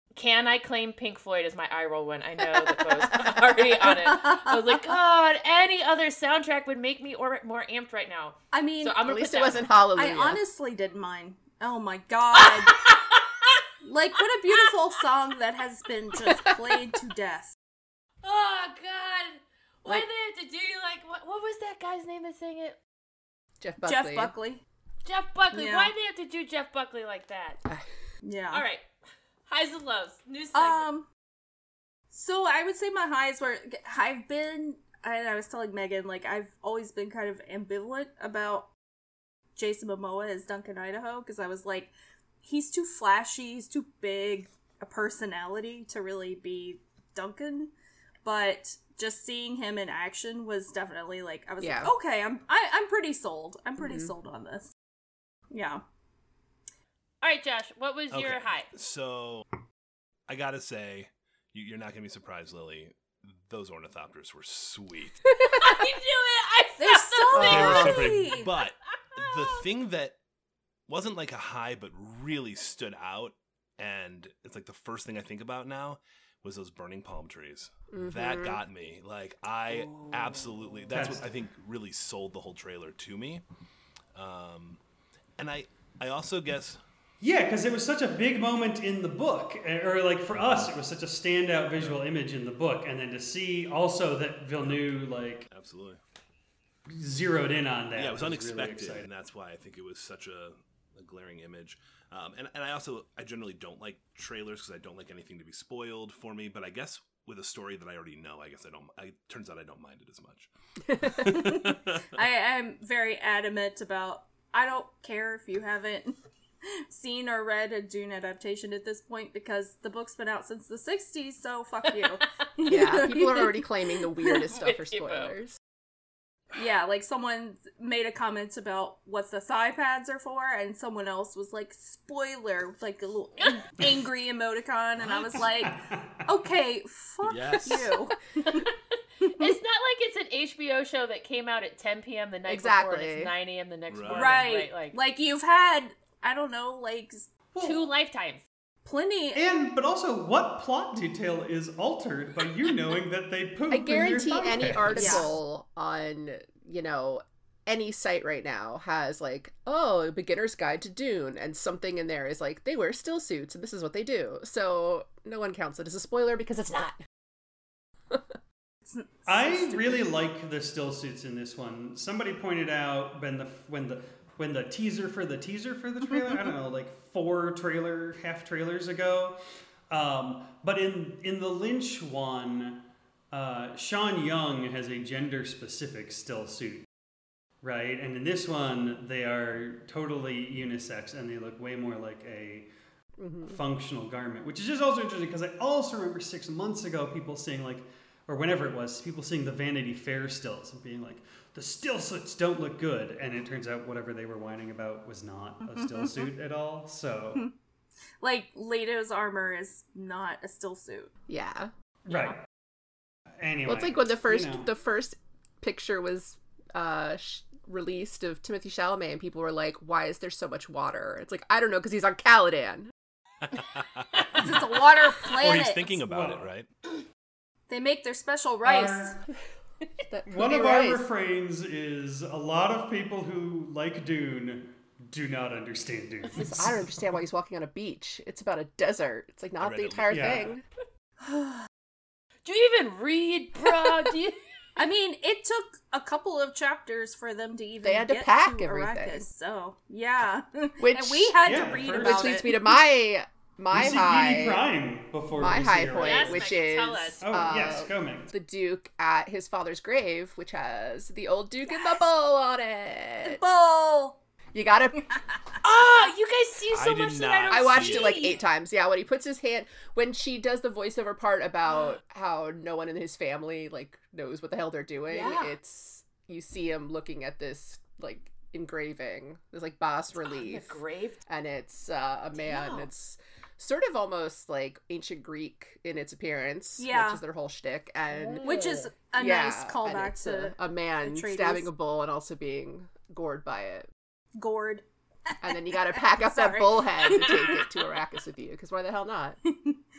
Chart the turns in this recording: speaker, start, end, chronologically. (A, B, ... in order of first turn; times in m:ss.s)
0:00.1-0:09.6 A
0:03.8-0:04.7 B
0:08.5-0:09.0 B
0:09.0-0:10.4 C
0:10.0-0:12.8 B
0:12.3-0:13.6 A
0:13.8-0:17.5 B
0:18.2-0:22.8 A
0:23.6-0:24.3 C
0:23.8-0:24.6 B
0:25.0-0:27.6 A
0:25.5-0:25.9 B
0:28.2-0:28.6 B
0:28.5-0:28.8 A
0:29.5-0:30.9 A
0:30.5-0:31.1 B
0:32.1-0:38.7 B
0:39.6-0:47.7 B
0:48.2-0:54.7 B
0:51.6-0:51.9 C
0:53.8-0:54.1 C
0:55.5-0:55.8 B
0:57.2-0:58.7 A
0:58.1-0:59.4 D
1:00.3-1:05.2 D
1:05.6-1:07.9 A
1:06.8-1:08.5 B
1:07.3-1:08.0 C
1:07.4-1:10.2 D
1:09.1-1:09.6 A
1:10.9-1:23.4 D
1:17.9-1:18.6 C
1:20.9-1:21.3 E
1:24.1-1:24.8 D
1:25.4-1:26.8 D
1:27.2-1:35.5 E
1:30.3-1:30.7 D
1:35.5-1:36.0 D
1:36.9-1:39.1 E
1:38.0-1:52.1 D
1:51.1-1:56.2 B
1:56.9-2:04.4 B
2:02.6-2:05.6 C
2:04.5-2:05.3 A
2:06.5-2:18.7 B
2:15.2-2:16.2 E
2:17.2-2:17.9 D
2:18.4-2:18.7 A
2:19.4-2:25.0 A
2:22.5-2:23.3 C
2:23.9-2:24.4 D
2:24.1-2:27.3 B
2:27.5-2:27.8 E
2:27.6-2:28.4 A
2:28.8-2:29.4 B
2:29.3-2:35.3 E
2:33.7-2:47.0 C
2:34.9-2:35.3 B
2:48.9-2:50.0 B
2:49.2-2:59.4 E
2:59.9-3:02.8 E
3:03.3-3:06.8 E
3:07.6-3:12.7 E
3:13.2-3:13.6 C
3:13.4-3:27.4 E
3:25.7-3:26.3 B
3:28.2-3:31.1 B
3:31.3-3:31.7 C
3:32.0-3:32.4 E
3:33.4-3:34.7 E
3:33.6-3:42.9 C
3:43.4-3:44.7 D
3:44.4-3:46.0 B
3:45.2-3:46.7 D
3:46.0-3:46.4 E
3:47.7-3:49.2 B
3:48.6-3:49.2 E
3:50.1-3:51.0 C
3:50.2-3:57.1 E
3:56.3-4:00.6 C
3:59.6-4:00.4 D
4:00.1-4:00.5 E
4:02.4-4:04.4 A
4:04.8-4:12.5 B
4:07.8-4:09.2 C
4:10.8-4:14.6 C
4:11.4-4:12.5 E
4:13.7-4:16.5 E
4:15.3-4:23.4 C
4:16.0-4:17.2 A
4:17.2-4:18.3 E
4:21.7-4:22.0 B
4:23.2-4:24.2 B
4:24.5-4:25.0 C
4:25.6-4:28.4 A
4:26.7-4:28.2 D
4:27.5-4:53.9 C
4:35.1-4:35.5 A
4:40.2-4:41.2 A
4:42.4-4:42.8 A
4:46.8-4:47.2 B
4:48.1-4:48.9 A
4:48.4-4:51.7 B
4:54.4-4:57.9 B
4:55.4-4:59.4 C
4:59.5-4:59.8 B